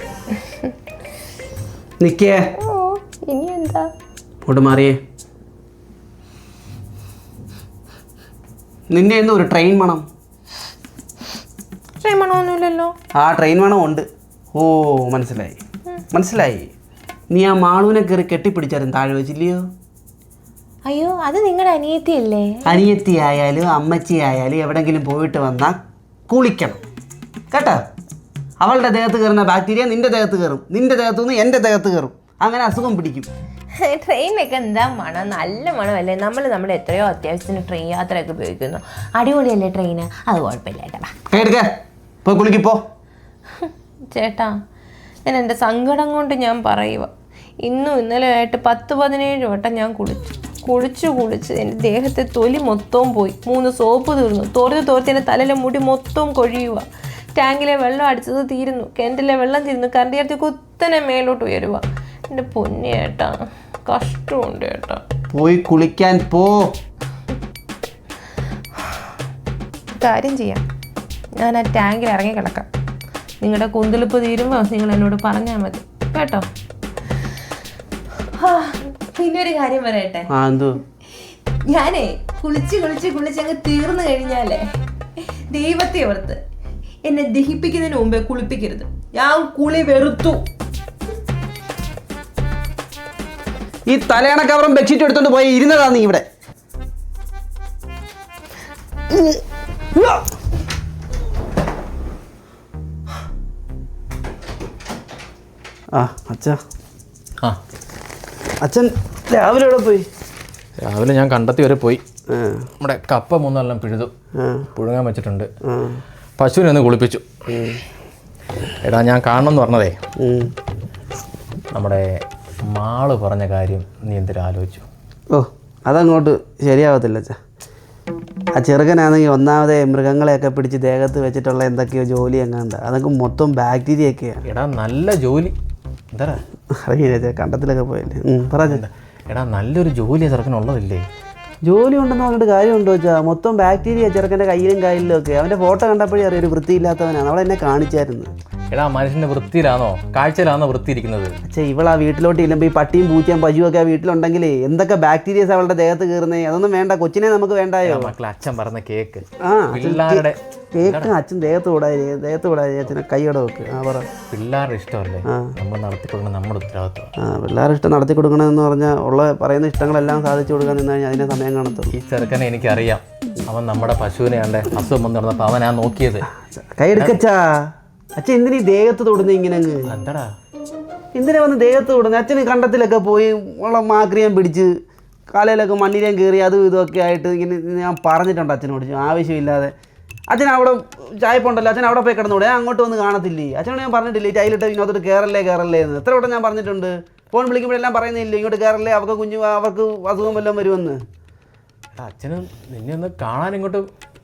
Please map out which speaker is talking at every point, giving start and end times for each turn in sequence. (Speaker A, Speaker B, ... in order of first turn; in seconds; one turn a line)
Speaker A: 2.0-2.5
Speaker B: 2.6-3.9
Speaker A: 4.4-5.0
Speaker A: 8.9-10.1
Speaker B: 12.0-12.9
Speaker A: 13.1-15.6
Speaker A: 16.1-16.7
Speaker A: 17.3-19.7
Speaker B: 20.9-22.6
Speaker A: 22.6-25.8
Speaker A: 26.3-26.8
Speaker A: 27.5-27.8
Speaker A: 28.6-33.3
Speaker B: 33.8-41.1
Speaker A: 41.3-42.8
Speaker B: 43.6-44.5
Speaker B: 45.2-47.1
Speaker B: 47.6-65.0
Speaker A: 65.3-66.8
Speaker B: 70.0-70.6
Speaker B: 71.3-72.7
Speaker B: 73.4-76.5
Speaker B: 78.3-80.3
Speaker A: 80.3-80.8
Speaker B: 81.7-84.7
Speaker B: 85.2-86.4
Speaker B: 87.0-90.4
Speaker A: 93.9-96.2
Speaker A: 99.1-99.4
Speaker A: 99.9-100.2
Speaker A: 105.9-106.6
Speaker A: 108.6-110.1
Speaker C: 110.8-112.0
Speaker A: 112.3-112.7
Speaker C: 112.8-114.1
Speaker A: 114.3-114.7
Speaker C: 114.7-115.5
Speaker A: 115.6-116.0
Speaker C: 116.4-117.3
Speaker A: 117.5-117.8
Speaker C: 118.8-120.0
Speaker A: 120.2-120.5
Speaker C: 121.7-124.8
Speaker A: 125.3-127.4
Speaker A: 128.5-134.4
Speaker C: 134.4-135.5
Speaker C: 136.1-136.4
Speaker A: 136.7-138.8
Speaker C: 138.6-141.0
Speaker A: 141.7-148.3
Speaker C: 148.7-151.3
Speaker A: 151.5-158.1
Speaker C: 157.8-161.1
Speaker A: 159.4-164.1
Speaker C: 164.3-167.1
Speaker A: 165.2-165.5
Speaker A: 167.2-171.9
Speaker C: 171.9-176.3
Speaker A: 176.6-179.9
Speaker C: 179.9-180.3
Speaker A: 181.1-184.7
Speaker A: 185.3-189.7
Speaker A: 190.3-201.0
Speaker C: 202.0-203.8